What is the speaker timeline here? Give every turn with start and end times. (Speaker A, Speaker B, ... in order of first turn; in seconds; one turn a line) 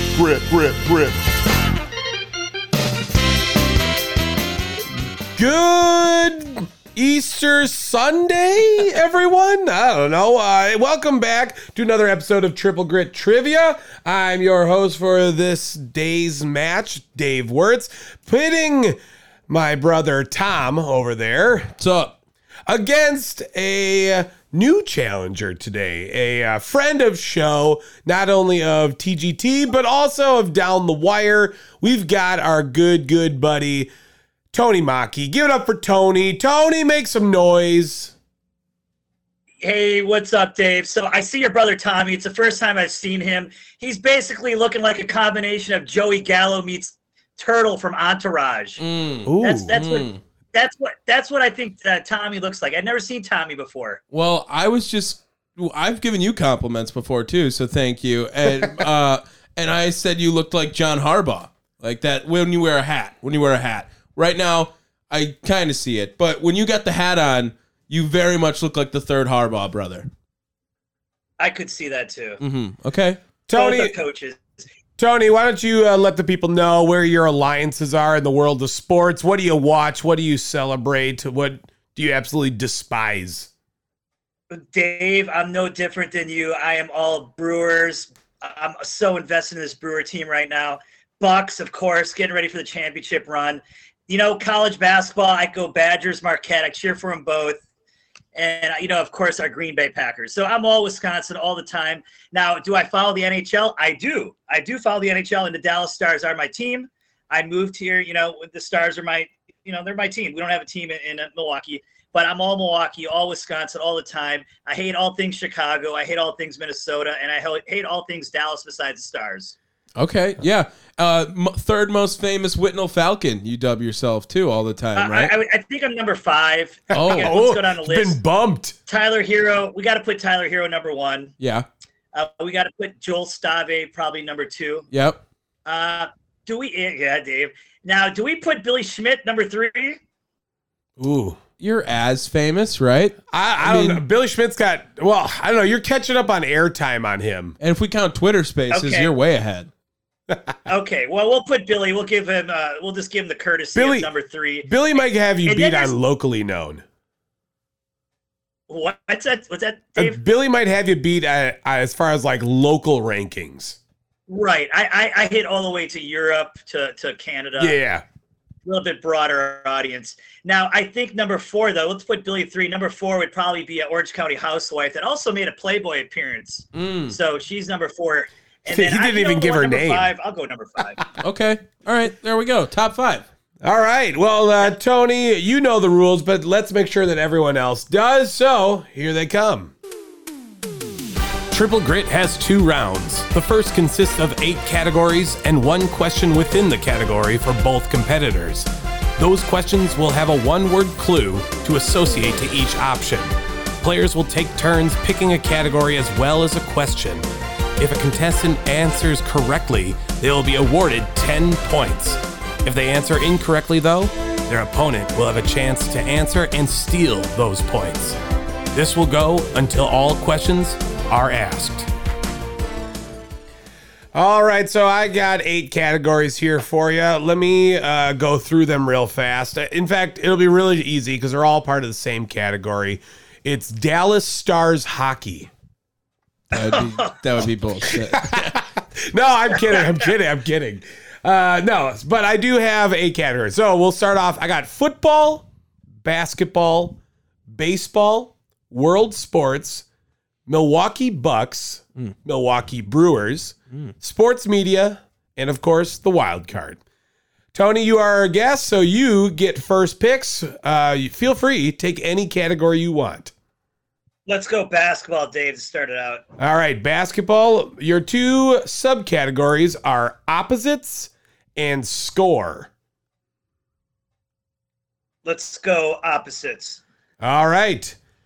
Speaker A: 0.2-1.1
Speaker A: 5.3-19.0
Speaker A: 19.5-21.7
Speaker B: 21.8-22.1
Speaker A: 22.7-33.9
Speaker A: 34.5-38.1
Speaker C: 39.6-48.8
Speaker B: 48.8-50.2
Speaker A: 49.2-49.8
Speaker C: 49.4-54.0
Speaker B: 54.1-70.1
Speaker C: 71.4-72.4
Speaker B: 72.4-73.2
Speaker A: 73.5-73.9
Speaker C: 73.5-74.5
Speaker A: 75.0-83.5
Speaker C: 84.5-97.6
Speaker C: 98.3-119.5
Speaker B: 120.0-125.3
Speaker C: 125.0-128.2
Speaker A: 126.9-128.8
Speaker B: 126.9-127.3
Speaker C: 128.9-131.3
Speaker B: 131.4-131.7
Speaker C: 132.1-134.9
Speaker B: 134.9-135.2
Speaker C: 135.6-140.0
Speaker A: 141.0-141.4
Speaker B: 141.6-144.0
Speaker A: 143.3-147.6
Speaker B: 147.6-149.7
Speaker C: 148.7-149.1
Speaker A: 150.3-150.5
Speaker C: 150.7-155.9
Speaker A: 153.8-154.1
Speaker A: 154.6-156.8
Speaker C: 158.7-160.2
Speaker A: 159.9-163.8
Speaker C: 164.3-167.8
Speaker A: 167.6-168.0
Speaker C: 168.7-181.0
Speaker B: 176.7-177.2
Speaker A: 178.7-180.1
Speaker B: 181.2-183.2
Speaker A: 183.6-189.7
Speaker A: 191.5-207.2
Speaker A: 207.8-218.2
Speaker A: 218.7-221.9
Speaker A: 224.1-235.5
Speaker B: 236.5-238.6
Speaker C: 236.5-237.2
Speaker A: 238.1-245.4
Speaker C: 239.6-240.1
Speaker A: 246.0-247.0
Speaker A: 247.5-249.8
Speaker A: 250.5-256.8
Speaker A: 257.5-263.3
Speaker C: 264.2-266.2
Speaker A: 266.4-272.7
Speaker C: 275.2-276.8
Speaker A: 277.2-278.0